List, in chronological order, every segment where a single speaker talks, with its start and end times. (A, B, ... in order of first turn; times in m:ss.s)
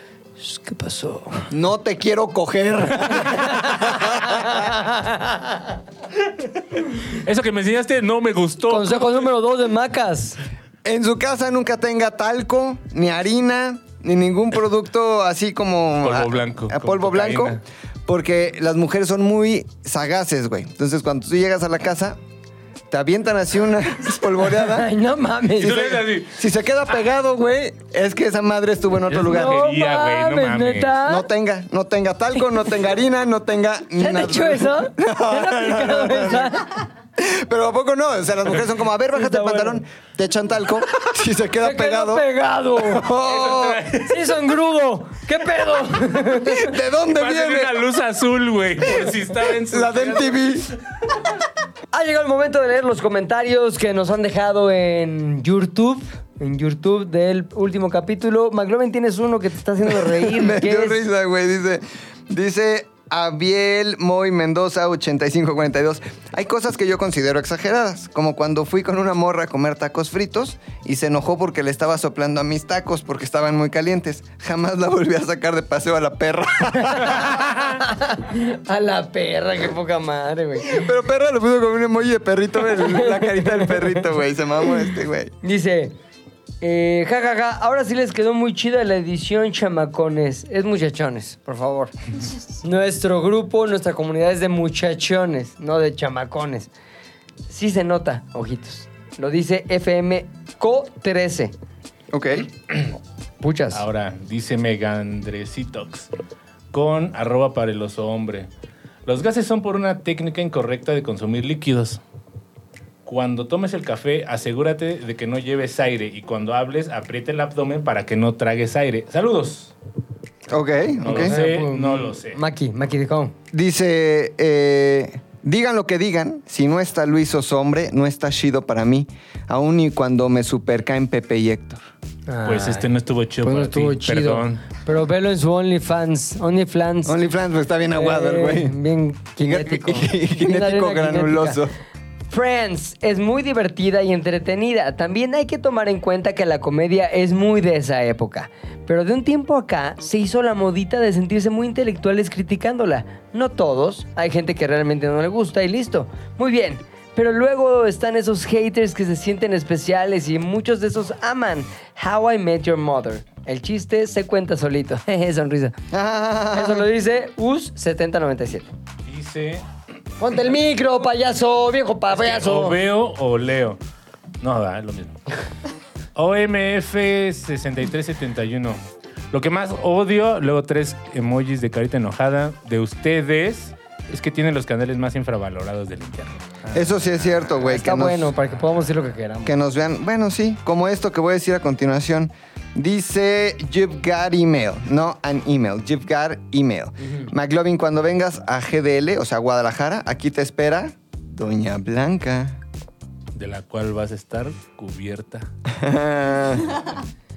0:00.4-0:01.5 A
0:01.5-0:04.7 B
0:03.2-0:05.7 A
0:07.1-0:09.3 C
0:08.7-0:10.4 A
0:10.8-0:22.2 B
0:16.0-0:17.6 C
0:22.9-0:24.9 B
0:24.4-0:26.0 A
0:25.6-0:26.4 C
0:26.2-0:29.6 B
0:29.1-0:31.0 C
0:29.2-0:31.3 A
0:31.0-0:36.6 B
0:33.9-0:36.8 A
0:37.2-0:43.8 B
0:39.1-0:39.8 A
0:41.6-0:43.1 A
0:43.2-0:44.2 C
0:44.0-0:46.7 A
0:46.4-0:47.8 B
0:47.1-0:50.5 C
0:49.5-0:50.7 B
0:51.9-1:01.0 A
1:00.0-1:17.5 B
1:16.8-1:20.9 A
1:20.6-1:25.3 B
1:22.7-1:24.0 A
1:25.4-1:25.9 A
1:26.6-1:31.9 A
1:32.6-1:36.7 A
1:37.5-1:41.5 A
1:42.1-1:42.5 B
1:43.4-1:43.8 A
1:43.7-1:46.1 C
1:46.7-1:48.5 C
1:49.0-1:52.0 C
1:53.0-1:59.7 C
2:00.5-2:01.3 B
2:01.0-2:02.4 C
2:01.0-2:03.3 A
2:03.5-2:11.8 B
2:12.3-2:12.9 A
2:12.4-2:14.6 C
2:13.4-2:17.2 A
2:17.0-2:18.8 B
2:17.9-2:21.6 A
2:19.4-2:21.7 B
2:22.3-2:45.8 A
2:45.9-2:46.9 B
2:46.5-2:48.7 A
2:49.0-2:49.6 C
2:50.2-2:52.8 A
2:52.1-2:53.8 C
2:54.4-2:55.2 C
2:56.2-2:58.8 C
2:59.3-3:07.3 C
3:06.7-3:08.3 B
3:07.6-3:09.5 A
3:09.4-3:22.6 B
3:17.0-3:17.3 A
3:23.3-3:25.5 C
3:25.7-3:26.9 B